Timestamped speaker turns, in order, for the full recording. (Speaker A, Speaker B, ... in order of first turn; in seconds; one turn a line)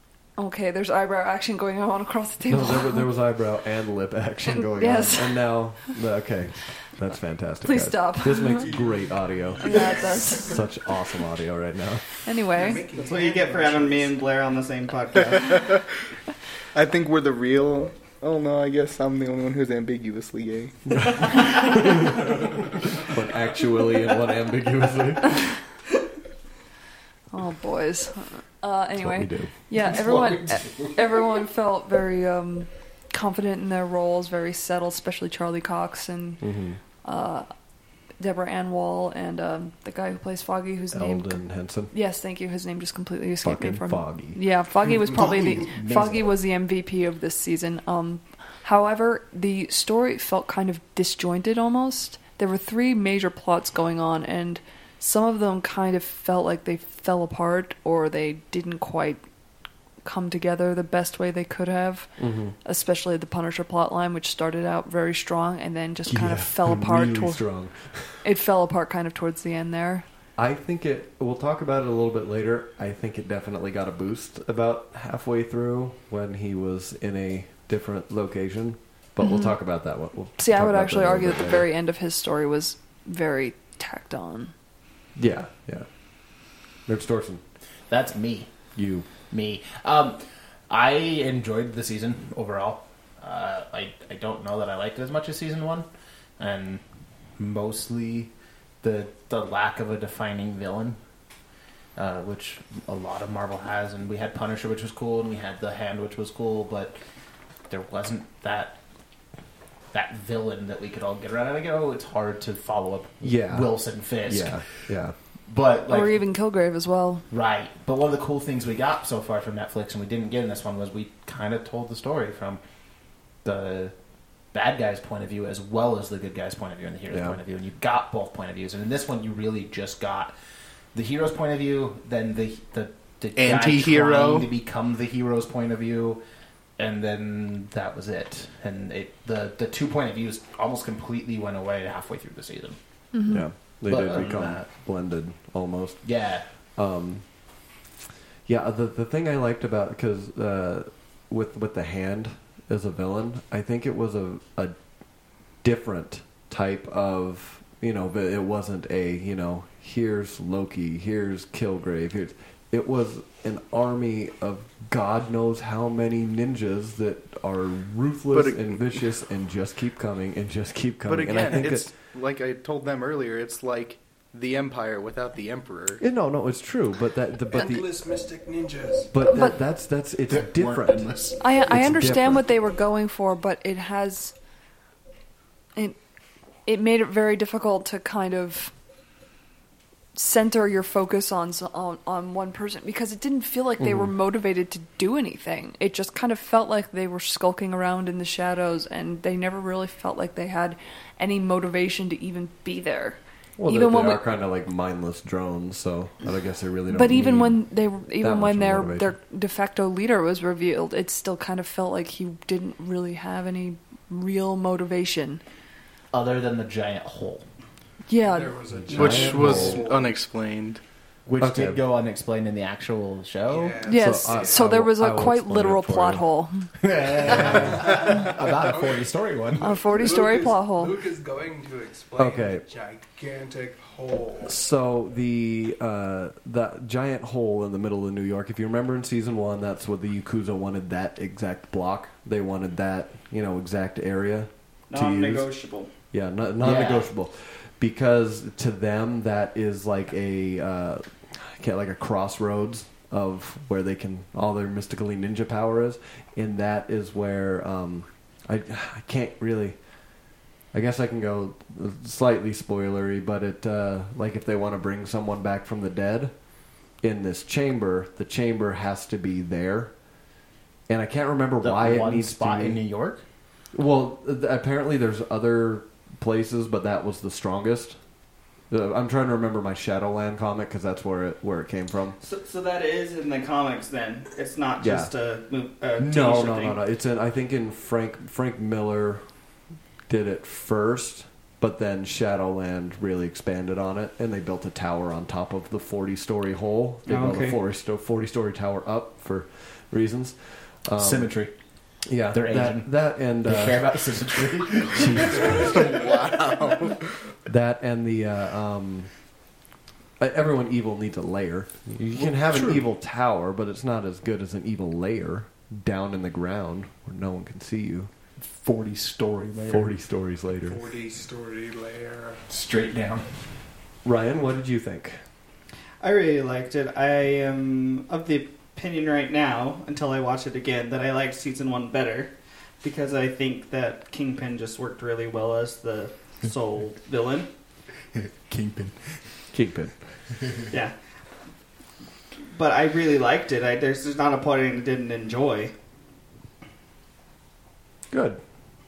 Speaker A: 0.4-3.1
Speaker B: 2.5-12.1
Speaker A: 4.5-5.6
Speaker A: 7.6-8.7
Speaker C: 9.6-10.5
Speaker A: 9.6-10.6
Speaker A: 12.2-12.9
Speaker C: 12.5-14.2
Speaker D: 12.9-15.7
Speaker E: 15.3-15.8
Speaker E: 16.7-21.4
Speaker B: 21.0-22.3
Speaker B: 23.0-25.5
Speaker A: 27.3-36.4
Speaker B: 29.0-29.5
Speaker B: 36.4-36.8
Speaker A: 37.0-37.5
Speaker A: 38.2-59.2
Speaker B: 40.9-41.9
Speaker B: 43.4-44.4
Speaker F: 45.0-46.3
Speaker A: 60.0-62.1
Speaker B: 62.2-62.6
Speaker A: 62.6-67.5
Speaker B: 66.1-68.2
Speaker A: 68.2-70.0
Speaker B: 70.4-81.7
Speaker A: 79.2-79.6
Speaker A: 80.4-84.5
Speaker B: 85.2-85.9
Speaker B: 86.9-87.4
Speaker F: 87.9-88.5
Speaker B: 88.8-89.1
Speaker F: 89.2-95.9
Speaker F: 96.4-96.8
Speaker F: 97.4-101.0
Speaker F: 102.0-107.0
Speaker F: 107.7-108.8
Speaker F: 109.9-114.6
Speaker B: 113.2-115.2
Speaker F: 115.5-116.2
Speaker A: 115.9-117.2
Speaker F: 117.3-122.6
Speaker F: 123.4-123.9
Speaker F: 124.5-130.3
Speaker B: 127.1-127.4
Speaker F: 130.9-136.2
Speaker E: 133.4-134.5
Speaker F: 136.8-142.8
Speaker A: 143.1-143.5
Speaker B: 143.3-146.0
Speaker F: 143.8-144.7
Speaker F: 146.0-146.5
Speaker B: 146.8-147.2
Speaker B: 148.5-154.8
Speaker B: 155.6-171.9
Speaker E: 168.3-168.8
Speaker E: 171.1-176.0
Speaker B: 176.0-177.9
Speaker C: 177.5-179.1
Speaker B: 179.1-181.1
Speaker F: 180.3-181.8
Speaker A: 181.4-184.3
Speaker B: 181.7-182.4
Speaker A: 186.7-188.7
Speaker A: 190.2-204.2
Speaker B: 193.8-194.1
Speaker B: 203.6-209.2
Speaker A: 206.9-215.4
Speaker F: 216.1-217.4
Speaker A: 218.1-218.6
Speaker C: 218.2-220.1
Speaker B: 218.9-219.8
Speaker E: 218.9-220.8
Speaker F: 221.3-223.8
Speaker B: 221.4-221.8
Speaker C: 223.4-224.7
Speaker A: 223.8-226.7
Speaker B: 223.9-226.3
Speaker F: 226.8-229.7
Speaker B: 227.3-227.7
Speaker C: 227.5-229.0
Speaker A: 229.6-231.0
Speaker C: 229.9-234.6
Speaker B: 232.2-232.6
Speaker B: 234.4-245.5
Speaker D: 244.9-245.9
Speaker B: 246.1-259.8
Speaker F: 246.6-247.1
Speaker B: 260.7-266.3
Speaker B: 267.0-269.9
Speaker B: 270.9-272.8
Speaker F: 271.6-273.2
Speaker B: 273.7-278.0
Speaker B: 278.7-282.2
Speaker D: 282.2-286.8
Speaker B: 284.8-285.1
Speaker B: 286.0-289.2
Speaker B: 290.1-301.3
Speaker D: 297.1-297.6
Speaker F: 301.0-301.5
Speaker B: 302.1-305.8
Speaker F: 302.3-306.1
Speaker E: 305.2-307.1
Speaker B: 307.4-309.1
Speaker B: 310.2-318.1
Speaker F: 312.2-312.8
Speaker F: 318.4-319.9
Speaker B: 319.6-320.8
Speaker C: 320.6-322.4
Speaker F: 322.5-323.3
Speaker B: 324.0-325.2
Speaker D: 326.0-337.5
Speaker F: 338.1-339.0
Speaker B: 339.5-339.9
Speaker D: 340.7-341.0
Speaker D: 342.5-345.7
Speaker B: 348.1-348.4